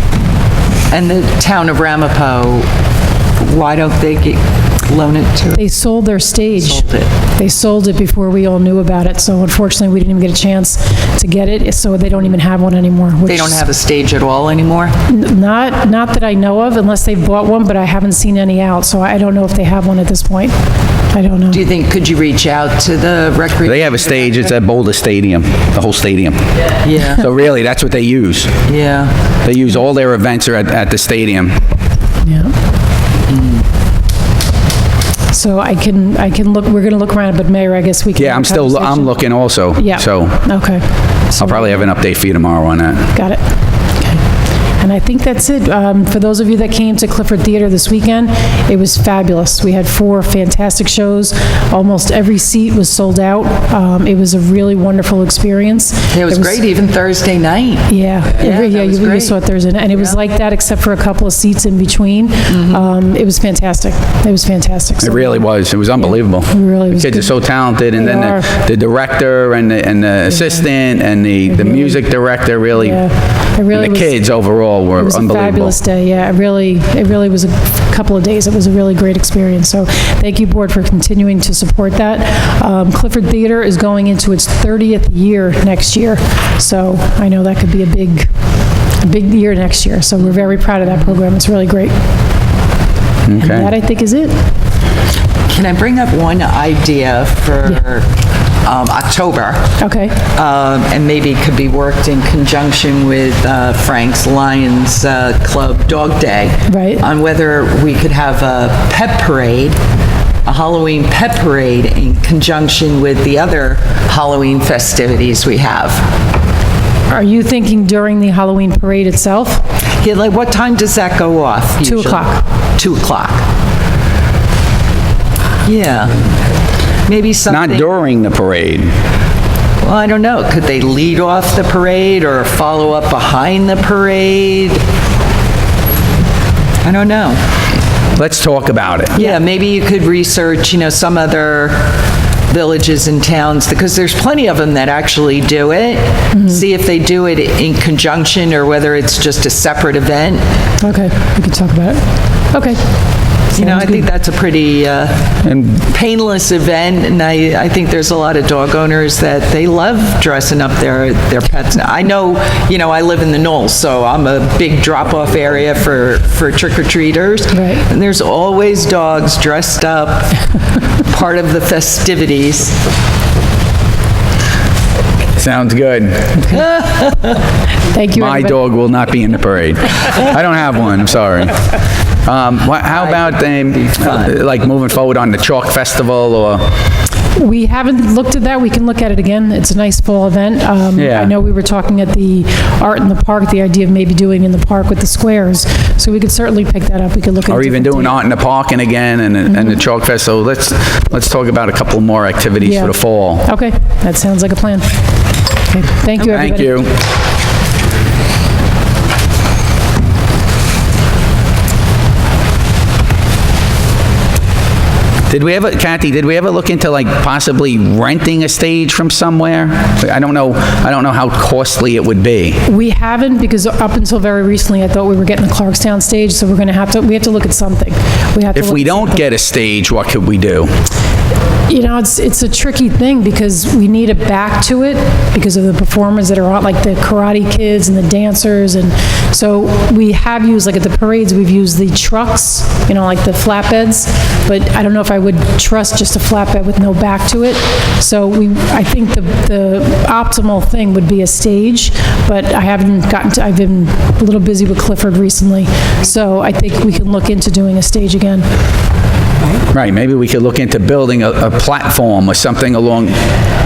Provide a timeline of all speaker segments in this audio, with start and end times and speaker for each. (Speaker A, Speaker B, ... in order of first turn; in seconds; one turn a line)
Speaker A: 0.9-2.7
Speaker A: 3.4-5.6
Speaker B: 5.5-13.6
Speaker A: 6.5-7.1
Speaker A: 13.2-14.9
Speaker B: 15.1-20.5
Speaker B: 21.1-21.6
Speaker A: 21.5-24.4
Speaker C: 23.6-26.4
Speaker A: 26.8-27.2
Speaker C: 27.0-28.6
Speaker A: 28.6-29.1
Speaker C: 29.4-31.6
Speaker B: 32.2-32.5
Speaker A: 33.3-33.6
Speaker B: 35.3-39.2
Speaker C: 38.1-40.5
Speaker B: 39.7-41.8
Speaker C: 41.4-43.1
Speaker B: 43.1-44.2
Speaker B: 44.8-56.6
Speaker A: 56.1-59.4
Speaker B: 57.9-65.4
Speaker A: 59.9-60.2
Speaker A: 62.5-62.9
Speaker C: 65.0-73.0
Speaker B: 66.0-67.3
Speaker B: 68.0-68.5
Speaker B: 70.3-70.6
Speaker B: 71.5-72.0
Speaker B: 72.7-74.2
Speaker C: 73.7-75.8
Speaker B: 75.0-88.3
Speaker B: 89.0-91.9
Speaker A: 90.2-91.0
Speaker C: 93.2-93.7
Speaker B: 93.4-94.3
Speaker A: 95.5-98.1
Speaker A: 98.6-109.8
Speaker B: 99.8-100.2
Speaker B: 106.7-107.0
Speaker A: 110.4-116.1
Speaker B: 117.1-119.6
Speaker A: 120.0-123.5
Speaker B: 121.8-122.4
Speaker A: 125.6-126.2
Speaker A: 127.0-127.9
Speaker C: 127.5-128.9
Speaker A: 129.8-134.8
Speaker A: 136.8-137.4
Speaker C: 138.2-139.2
Speaker A: 139.1-150.4
Speaker B: 146.3-146.6
Speaker B: 150.8-154.1
Speaker A: 153.5-170.4
Speaker C: 155.4-155.8
Speaker B: 167.5-167.8
Speaker A: 171.0-172.8
Speaker C: 175.4-176.6
Speaker A: 176.6-177.4
Speaker B: 177.9-178.6
Speaker C: 178.1-181.6
Speaker C: 182.2-186.7
Speaker A: 182.9-184.3
Speaker B: 187.3-198.2
Speaker C: 190.9-191.3
Speaker C: 197.5-203.4
Speaker B: 199.5-199.8
Speaker B: 202.6-206.8
Speaker C: 206.2-206.9
Speaker C: 215.3-222.6
Speaker B: 222.7-229.2
Speaker C: 228.5-230.7
Speaker B: 231.7-258.4
Speaker C: 259.7-263.2